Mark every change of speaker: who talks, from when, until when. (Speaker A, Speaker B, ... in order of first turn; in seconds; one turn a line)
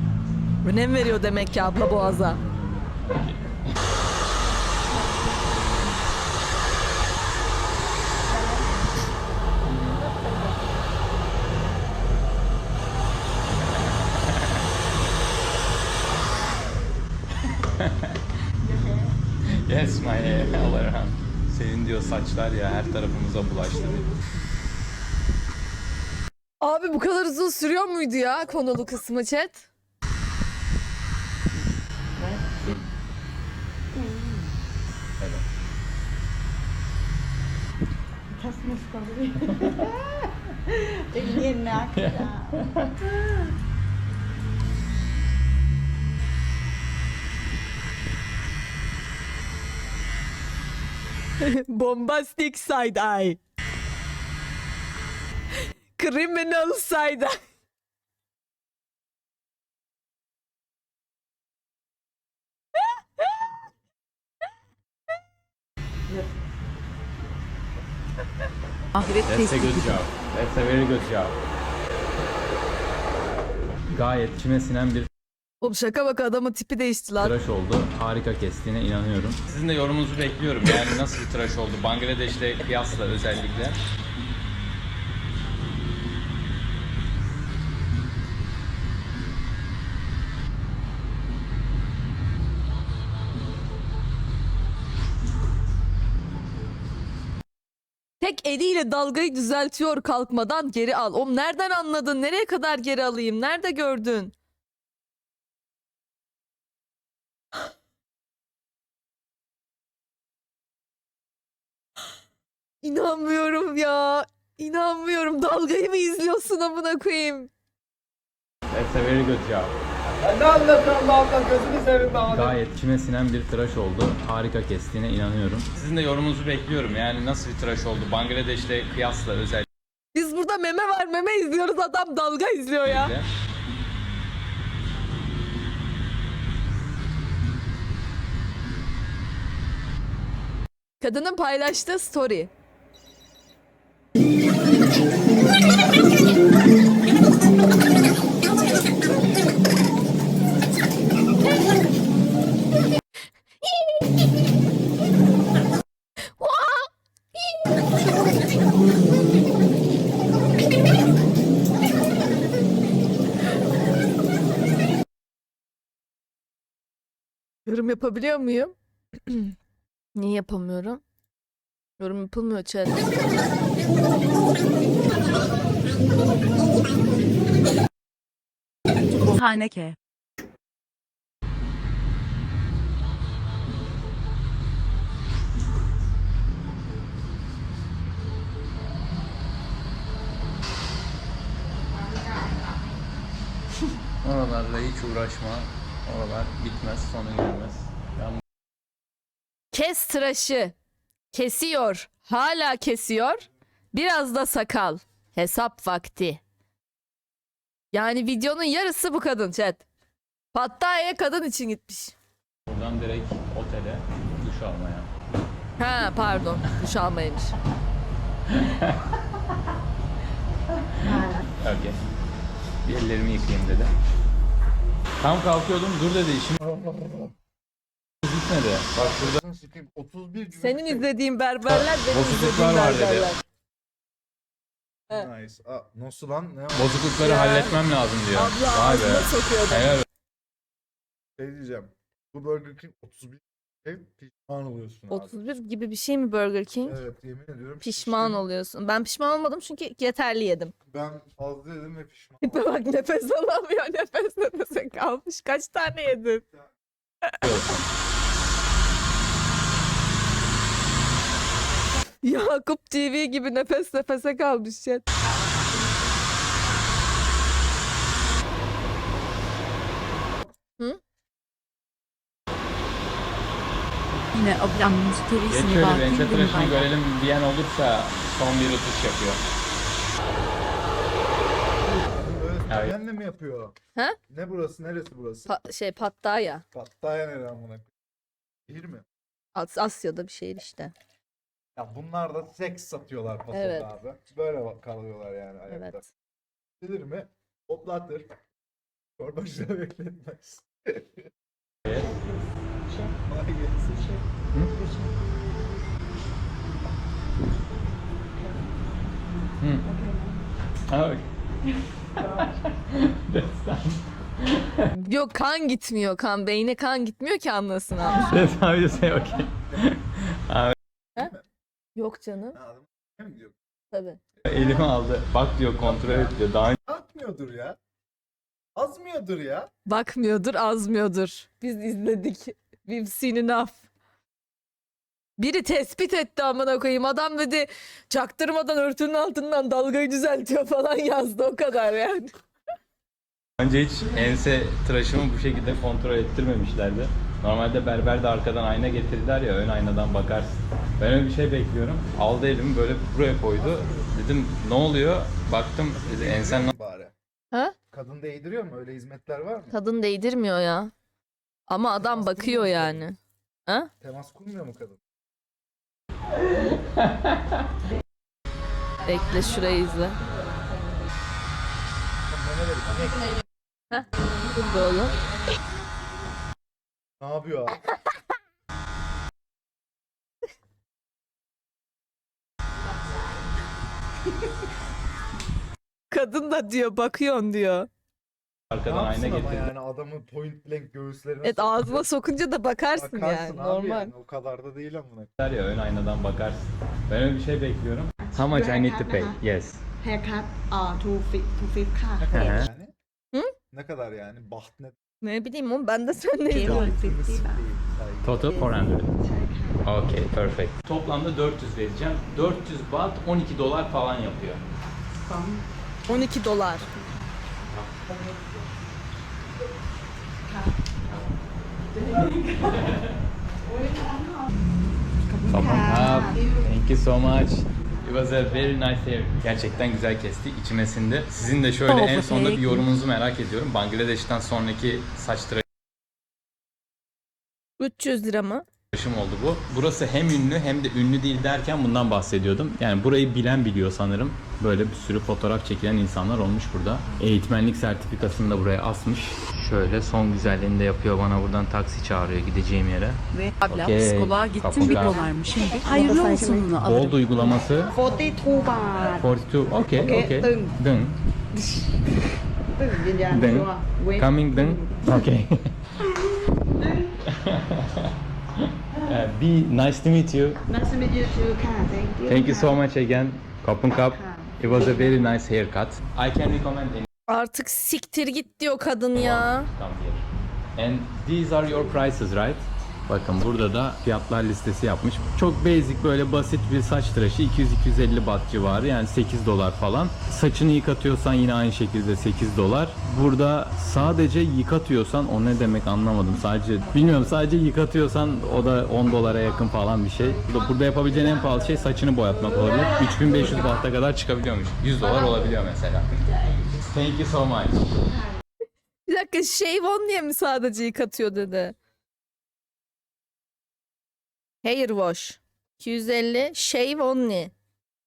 Speaker A: 0.6-2.4
Speaker B: 2.1-3.4
Speaker B: 5.5-6.0
Speaker C: 8.3-8.6
Speaker B: 9.7-10.0
Speaker B: 14.2-14.5
Speaker B: 17.8-18.1
Speaker B: 19.6-24.1
Speaker A: 26.6-29.7
Speaker C: 32.2-32.7
Speaker C: 33.9-34.5
Speaker C: 38.3-43.4
Speaker B: 41.9-42.9
Speaker A: 51.4-53.4
Speaker A: 56.0-57.4
Speaker D: 68.9-70.0
Speaker B: 69.2-71.3
Speaker B: 73.9-75.1
Speaker A: 75.6-77.3
Speaker B: 77.2-83.8
Speaker A: 98.2-104.3
Speaker A: 112.8-117.5
Speaker B: 118.7-119.7
Speaker E: 120.2-122.6
Speaker B: 122.3-129.7
Speaker A: 130.1-133.1
Speaker B: 132.8-133.2
Speaker A: 141.0-142.5
Speaker A: 156.4-156.9
Speaker A: 167.7-168.7
Speaker A: 169.3-169.5
Speaker A: 170.1-171.0
Speaker A: 172.0-173.0
Speaker D: 179.1-179.9
Speaker B: 194.2-198.4
Speaker A: 199.7-200.7
Speaker A: 201.3-206.4
Speaker A: 207.9-209.8
Speaker A: 210.5-212.1
Speaker B: 212.7-215.1
Speaker A: 215.8-217.5
Speaker B: 218.5-219.0
Speaker C: 221.0-221.4
Speaker B: 221.1-222.0
Speaker B: 222.8-223.9
Speaker B: 225.2-226.7
Speaker E: 226.7-227.3
Speaker B: 228.2-229.4
Speaker E: 229.0-231.1
Speaker A: 230.6-233.4
Speaker B: 231.7-233.3
Speaker E: 235.1-237.0
Speaker B: 236.7-240.0
Speaker A: 237.2-237.8
Speaker A: 238.3-240.0
Speaker E: 241.4-245.3
Speaker A: 245.1-247.0
Speaker E: 246.8-248.4
Speaker A: 247.8-250.7
Speaker E: 250.9-252.7
Speaker A: 252.4-256.4
Speaker B: 257.4-257.8
Speaker A: 262.2-265.0
Speaker D: 274.3-276.9
Speaker B: 275.5-279.4
Speaker E: 281.8-283.7
Speaker B: 282.7-282.9
Speaker E: 284.3-285.5
Speaker A: 285.5-286.6
Speaker E: 286.7-287.9
Speaker E: 288.7-289.0
Speaker A: 289.5-290.9
Speaker E: 291.8-296.0
Speaker A: 293.5-293.9
Speaker A: 295.7-296.0
Speaker E: 296.8-298.3
Speaker E: 299.2-301.3
Speaker C: 301.9-303.1
Speaker E: 303.3-303.9
Speaker C: 303.9-305.2
Speaker C: 308.4-308.8
Speaker C: 309.8-310.4
Speaker B: 310.9-311.2
Speaker B: 312.1-314.9
Speaker A: 314.9-318.3
Speaker B: 318.1-320.7
Speaker A: 321.9-322.6
Speaker E: 322.5-323.5
Speaker A: 323.9-324.2
Speaker B: 324.4-326.8
Speaker E: 325.8-327.8
Speaker E: 328.8-329.7
Speaker A: 329.9-333.8
Speaker A: 335.4-342.4
Speaker B: 343.6-356.7
Speaker E: 353.6-354.1
Speaker E: 355.9-357.1
Speaker E: 357.9-359.7
Speaker A: 359.7-360.9
Speaker A: 361.7-363.9
Speaker E: 362.0-363.1
Speaker E: 364.0-365.0
Speaker A: 369.0-370.2
Speaker E: 372.3-373.4
Speaker A: 373.9-375.1
Speaker E: 377.2-377.8
Speaker A: 386.1-387.9
Speaker B: 388.7-389.7
Speaker E: 388.8-392.1
Speaker A: 391.4-394.1
Speaker E: 392.9-395.3
Speaker B: 395.4-399.8
Speaker C: 398.2-399.4
Speaker C: 400.0-402.6
Speaker E: 402.2-402.9
Speaker B: 402.3-402.6
Speaker E: 403.7-404.9
Speaker A: 405.2-406.9
Speaker C: 406.4-407.6
Speaker E: 406.5-408.6
Speaker B: 408.2-409.1
Speaker C: 408.5-409.8
Speaker B: 409.8-414.6
Speaker C: 415.2-417.4
Speaker A: 416.1-416.9
Speaker B: 417.7-418.0
Speaker C: 420.4-420.8
Speaker C: 422.1-422.4
Speaker B: 422.4-423.1
Speaker C: 425.2-426.7
Speaker B: 425.5-435.6
Speaker D: 431.9-432.9
Speaker A: 437.8-438.6
Speaker B: 438.9-455.2
Speaker D: 453.6-457.6
Speaker C: 454.8-456.7
Speaker B: 456.8-457.9
Speaker C: 457.9-459.3
Speaker B: 459.1-461.1
Speaker C: 459.9-460.7
Speaker C: 461.5-461.9
Speaker C: 462.8-465.1
Speaker B: 463.3-465.7
Speaker C: 466.0-467.1
Speaker B: 467.3-470.6
Speaker C: 470.7-472.8
Speaker B: 472.2-477.1
Speaker C: 474.1-475.1
Speaker A: 477.3-479.7
Speaker B: 479.1-480.2
Speaker B: 480.8-506.1
Speaker C: 500.1-503.9
Speaker C: 505.0-505.5
Speaker C: 506.2-506.7
Speaker B: 506.8-507.8
Speaker A: 509.1-511.8
Speaker A: 514.6-517.5